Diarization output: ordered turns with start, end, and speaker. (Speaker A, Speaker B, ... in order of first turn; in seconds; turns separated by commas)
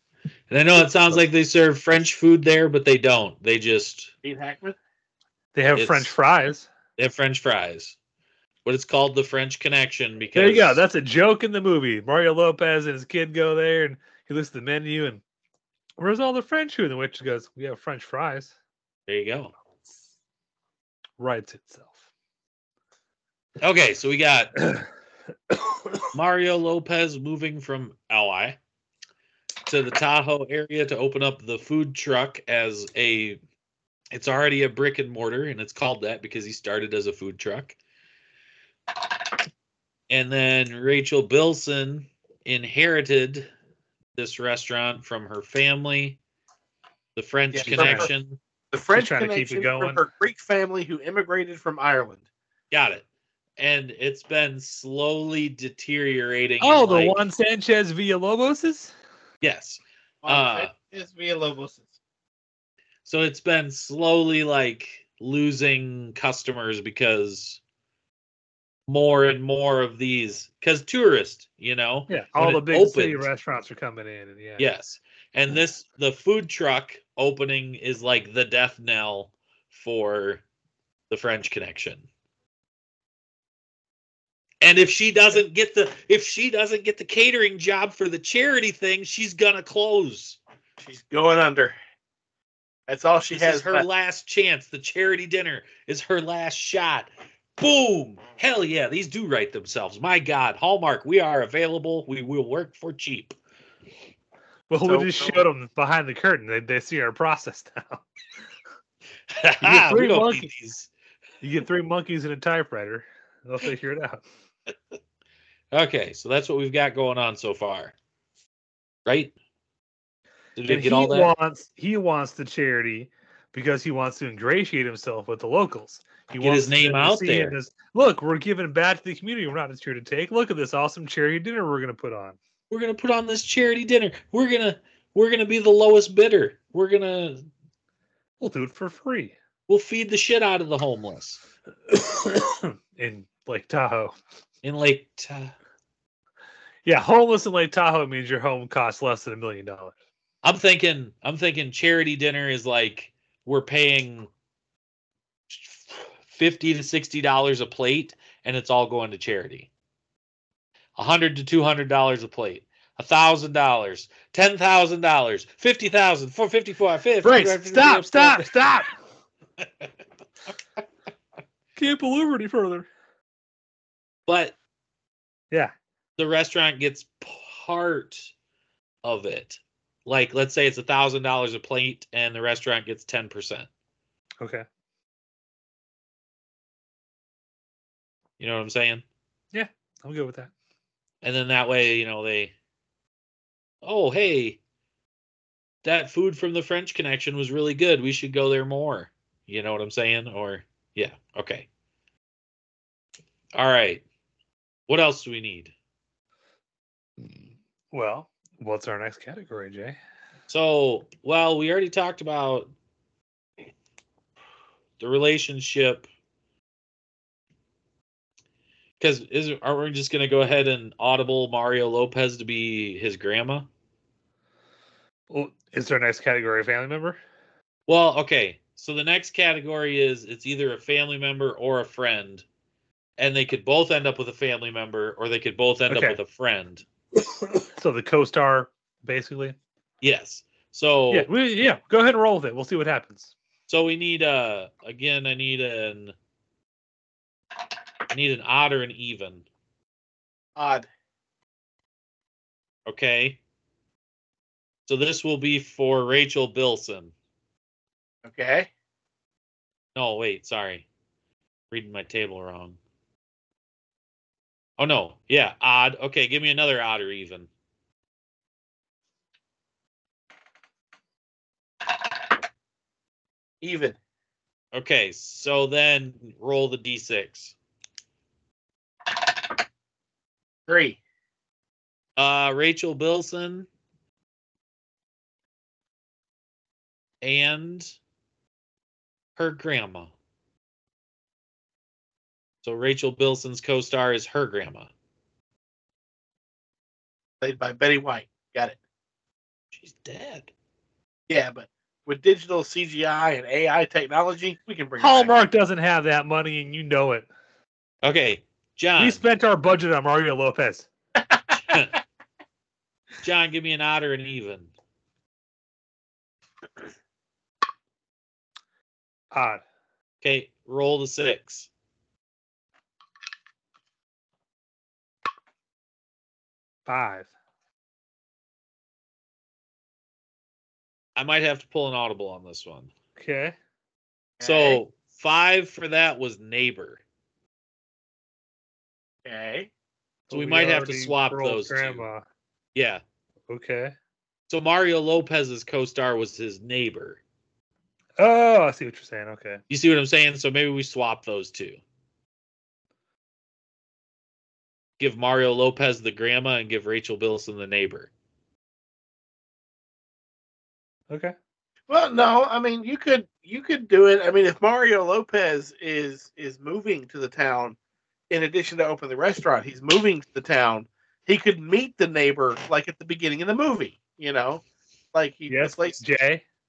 Speaker A: 0.5-4.1, Speaker B: 4.2-4.8, Speaker C: 5.5-6.7, Speaker A: 5.8-6.1, Speaker A: 7.0-8.0, Speaker A: 8.7-10.8, Speaker C: 10.4-15.2, Speaker C: 16.0-18.5, Speaker A: 19.1-19.5, Speaker C: 21.2-22.0, Speaker A: 23.6-24.7, Speaker A: 26.1-28.6, Speaker A: 29.7-33.4, Speaker A: 34.1-37.8, Speaker A: 40.1-43.5, Speaker A: 44.2-46.2, Speaker A: 47.2-48.4, Speaker B: 47.5-48.1, Speaker C: 47.7-48.1, Speaker B: 48.7-52.2, Speaker C: 48.9-50.0, Speaker A: 52.7-53.0, Speaker A: 53.6-57.2, Speaker C: 56.6-58.9, Speaker A: 59.4-60.7, Speaker B: 60.2-61.9, Speaker A: 63.1-67.6, Speaker A: 68.9-73.3, Speaker C: 72.1-74.7, Speaker A: 74.6-80.4, Speaker A: 81.1-82.1, Speaker A: 84.6-90.4, Speaker B: 90.8-91.8, Speaker B: 92.9-93.9, Speaker A: 93.3-103.4, Speaker C: 104.7-108.0, Speaker B: 104.8-105.4, Speaker A: 109.3-110.9, Speaker C: 109.6-110.5, Speaker C: 111.4-114.2, Speaker A: 115.7-117.9, Speaker A: 119.1-119.3, Speaker A: 120.6-121.3, Speaker C: 120.7-132.4, Speaker A: 126.4-127.5, Speaker A: 132.7-137.5, Speaker C: 138.4-139.4, Speaker A: 139.7-141.4, Speaker C: 141.9-144.2, Speaker A: 144.6-145.5, Speaker C: 146.8-149.9, Speaker A: 150.4-154.3, Speaker A: 155.5-159.7, Speaker A: 161.0-168.8, Speaker C: 167.2-168.9, Speaker C: 171.8-172.9, Speaker A: 174.3-174.6, Speaker A: 176.2-178.3, Speaker A: 179.0-183.7, Speaker A: 188.4-189.0, Speaker C: 189.5-190.5, Speaker A: 191.2-192.5, Speaker A: 193.8-194.6, Speaker A: 195.8-201.7, Speaker A: 203.5-204.0, Speaker A: 204.9-205.7, Speaker C: 207.9-210.0, Speaker A: 210.5-212.7, Speaker A: 215.0-216.1, Speaker A: 219.0-223.7, Speaker C: 225.3-227.2, Speaker A: 227.9-232.4, Speaker A: 233.2-236.8, Speaker C: 235.9-236.2, Speaker C: 237.8-239.6, Speaker A: 240.0-241.3, Speaker C: 241.1-243.3, Speaker A: 243.7-246.2, Speaker A: 248.1-249.5, Speaker B: 250.6-250.9, Speaker A: 252.9-253.4, Speaker A: 254.9-257.1, Speaker B: 258.2-258.7, Speaker A: 259.9-260.9, Speaker A: 261.7-262.8, Speaker A: 264.8-267.5, Speaker B: 273.6-274.0, Speaker A: 274.7-277.6, Speaker B: 280.7-281.0, Speaker A: 282.2-283.7, Speaker A: 287.2-287.9, Speaker A: 289.4-290.1, Speaker A: 292.6-294.9, Speaker B: 297.4-298.8, Speaker A: 299.7-300.5, Speaker B: 301.3-305.4, Speaker C: 305.0-307.3, Speaker A: 308.0-309.2, Speaker C: 309.0-310.9, Speaker A: 311.6-311.9, Speaker A: 313.2-314.7, Speaker C: 319.3-319.6, Speaker A: 320.2-321.7, Speaker C: 326.9-327.3, Speaker A: 331.2-332.9, Speaker C: 333.2-333.6, Speaker B: 334.4-334.8, Speaker A: 334.4-337.0, Speaker B: 339.2-339.7, Speaker C: 340.3-342.2, Speaker A: 340.3-342.1, Speaker A: 342.8-343.0, Speaker C: 343.5-343.9, Speaker A: 344.5-347.2, Speaker C: 348.2-349.6, Speaker A: 349.7-351.8, Speaker A: 355.0-358.1, Speaker C: 361.1-361.4, Speaker B: 361.9-367.8, Speaker B: 368.3-376.0, Speaker C: 375.5-376.4